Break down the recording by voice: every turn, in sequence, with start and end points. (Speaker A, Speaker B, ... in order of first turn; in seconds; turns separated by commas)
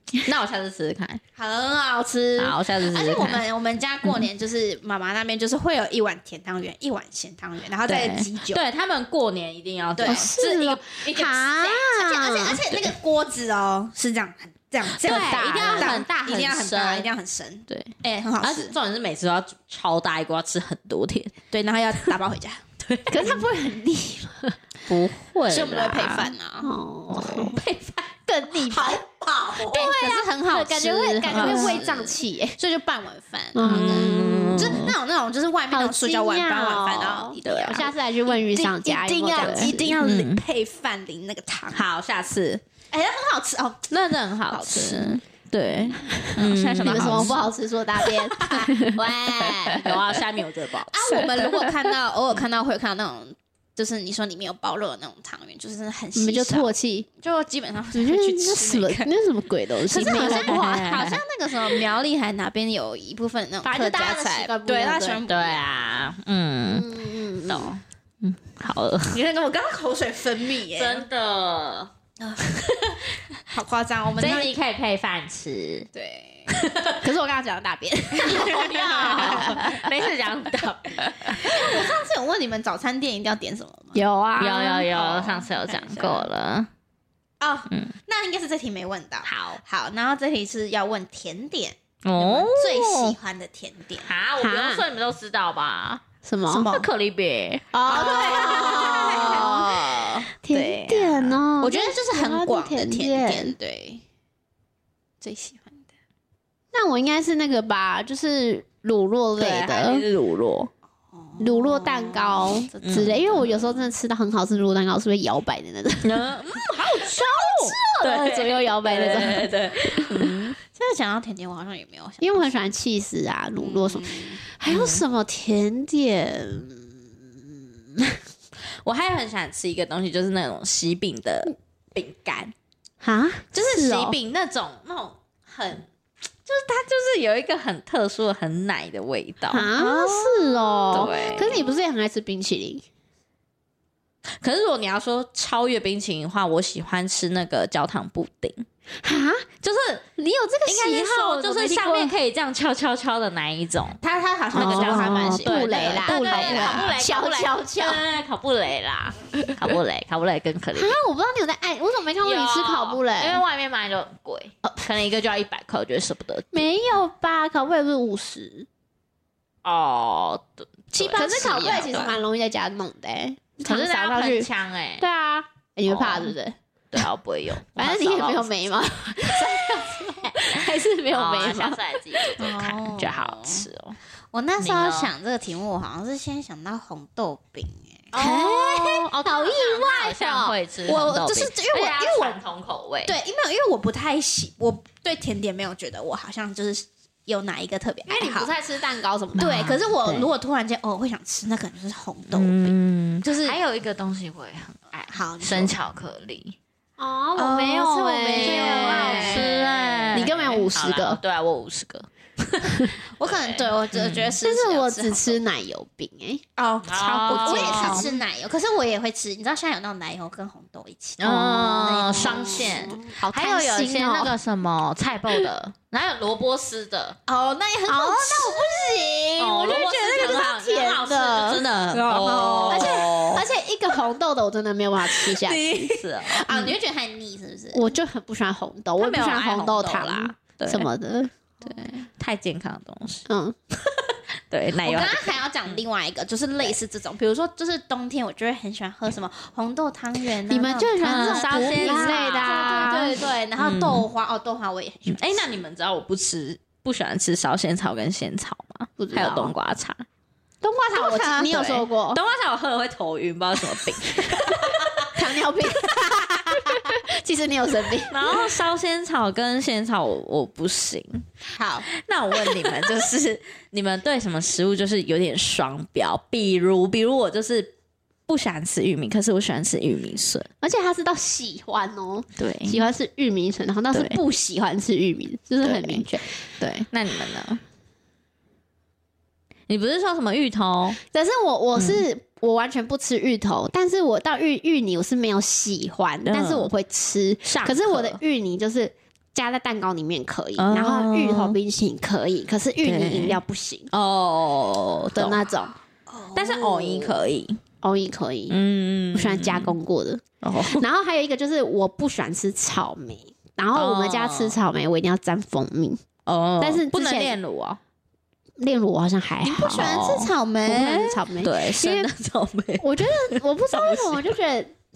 Speaker A: 0.2-1.2, Speaker B: 1.4-8.6, Speaker A: 2.4-3.4, Speaker A: 7.8-10.8, Speaker B: 9.9-18.7, Speaker C: 10.0-12.7, Speaker A: 14.8-17.1, Speaker C: 15.0-16.0, Speaker A: 17.7-21.4, Speaker B: 21.5-22.6, Speaker A: 22.8-23.4, Speaker C: 23.1-24.6, Speaker A: 24.9-26.3, Speaker B: 25.5-26.7, Speaker C: 26.6-27.6, Speaker A: 27.1-28.1, Speaker C: 28.3-29.0, Speaker B: 28.5-41.9, Speaker C: 29.5-32.6, Speaker A: 31.3-31.8, Speaker C: 33.5-34.8, Speaker A: 33.6-34.9, Speaker C: 35.7-40.0, Speaker A: 37.4-37.9, Speaker A: 39.4-40.4, Speaker A: 41.7-42.6, Speaker B: 42.9-43.9, Speaker A: 43.9-47.4, Speaker B: 44.5-45.2, Speaker B: 46.4-47.5, Speaker C: 46.8-49.1, Speaker B: 48.0-50.0, Speaker A: 49.0-51.8, Speaker B: 50.9-59.1, Speaker C: 56.1-57.1, Speaker C: 57.9-61.0, Speaker B: 59.9-66.1, Speaker A: 60.0-61.2, Speaker C: 63.6-65.2, Speaker A: 65.3-69.2, Speaker C: 66.7-67.7, Speaker B: 69.1-71.0, Speaker A: 70.7-71.9, Speaker B: 72.2-72.5, Speaker A: 72.4-73.0, Speaker B: 73.5-74.5, Speaker A: 74.2-75.9, Speaker B: 75.9-76.6, Speaker A: 76.5-77.0, Speaker C: 77.0-79.7, Speaker B: 78.2-79.8, Speaker A: 78.2-81.5, Speaker B: 81.2-84.0, Speaker C: 83.9-84.9, Speaker A: 84.4-86.7, Speaker B: 84.9-86.3, Speaker B: 87.4-94.1, Speaker A: 89.2-89.6, Speaker A: 92.0-93.2, Speaker A: 94.0-96.0, Speaker C: 94.4-94.8, Speaker C: 96.2-96.7, Speaker B: 96.5-96.9, Speaker A: 96.5-99.8, Speaker B: 97.7-100.2, Speaker C: 97.7-103.5, Speaker A: 100.5-101.4, Speaker B: 101.6-104.0, Speaker B: 105.2-105.9, Speaker C: 106.7-110.0, Speaker A: 109.4-110.7, Speaker B: 111.1-113.8, Speaker C: 111.4-116.3, Speaker A: 112.8-113.4, Speaker A: 116.0-120.5, Speaker B: 116.8-117.2, Speaker C: 116.9-120.2, Speaker B: 120.7-122.5, Speaker C: 122.2-128.2, Speaker B: 123.6-124.4, Speaker A: 124.7-125.0, Speaker A: 128.8-132.5, Speaker C: 133.0-134.2, Speaker A: 133.5-135.9, Speaker A: 136.4-139.7, Speaker C: 139.5-142.8, Speaker B: 139.8-141.6, Speaker A: 140.9-141.6, Speaker A: 144.4-148.7, Speaker C: 149.0-149.4, Speaker A: 149.6-150.0, Speaker C: 150.2-152.1, Speaker A: 150.7-154.0, Speaker B: 154.0-157.0, Speaker A: 154.5-160.9, Speaker C: 154.5-158.0, Speaker C: 160.8-163.4, Speaker A: 162.2-166.7, Speaker C: 166.5-168.7, Speaker A: 169.6-172.2, Speaker B: 170.9-172.2, Speaker C: 171.1-176.6, Speaker A: 173.6-175.0, Speaker A: 175.8-176.3, Speaker A: 176.9-178.5, Speaker C: 177.8-182.4, Speaker A: 180.4-184.0, Speaker B: 182.4-183.7, Speaker B: 184.3-188.7, Speaker A: 184.6-185.1, Speaker A: 188.1-193.2, Speaker C: 188.1-190.6, Speaker B: 190.8-192.4, Speaker B: 193.1-198.5, Speaker C: 198.1-199.9, Speaker B: 199.4-202.7, Speaker A: 199.4-200.2, Speaker A: 202.3-206.6, Speaker B: 203.2-203.6, Speaker B: 205.1-205.8, Speaker C: 207.0-209.5, Speaker B: 207.3-210.3, Speaker A: 208.3-214.3, Speaker C: 210.1-211.2, Speaker B: 213.2-215.4, Speaker C: 214.4-216.4, Speaker B: 216.6-223.0, Speaker A: 216.8-218.1, Speaker C: 217.3-218.2, Speaker A: 221.2-227.2, Speaker C: 221.3-224.3, Speaker B: 227.3-233.2, Speaker C: 227.9-231.5, Speaker A: 229.4-233.4, Speaker C: 232.7-235.9, Speaker A: 235.4-236.7, Speaker B: 236.2-237.9, Speaker C: 237.7-241.3, Speaker A: 239.0-240.9, Speaker A: 241.6-243.2, Speaker C: 243.3-243.5, Speaker A: 243.8-245.3, Speaker B: 244.8-255.5, Speaker C: 250.5-253.3, Speaker A: 251.0-254.1, Speaker A: 255.1-260.1, Speaker C: 259.0-259.5, Speaker C: 260.6-262.2, Speaker B: 260.9-261.7, Speaker A: 261.5-265.1, Speaker C: 265.0-268.4, Speaker B: 265.8-266.8, Speaker A: 268.1-271.3, Speaker B: 271.5-271.9, Speaker A: 271.9-277.7, Speaker A: 278.3-280.5, Speaker C: 280.6-286.2, Speaker A: 282.4-282.8, Speaker A: 283.9-284.2, Speaker A: 285.6-286.1, Speaker A: 286.6-287.6, Speaker A: 289.7-291.0, Speaker C: 291.1-303.9, Speaker A: 291.8-292.0, Speaker A: 296.2-296.7, Speaker A: 297.4-298.2, Speaker A: 300.6-301.6, Speaker A: 302.8-303.4, Speaker A: 303.9-305.5, Speaker C: 305.1-305.7, Speaker B: 306.1-307.2, Speaker A: 306.3-307.6, Speaker C: 307.8-308.6, Speaker A: 308.5-309.7, Speaker C: 309.1-316.0, Speaker A: 310.4-310.8, Speaker A: 313.7-314.6, Speaker A: 316.2-317.8, Speaker C: 316.6-317.4, Speaker C: 318.6-322.1, Speaker B: 319.4-321.2, Speaker A: 319.8-320.3, Speaker A: 321.4-324.3, Speaker C: 322.8-324.8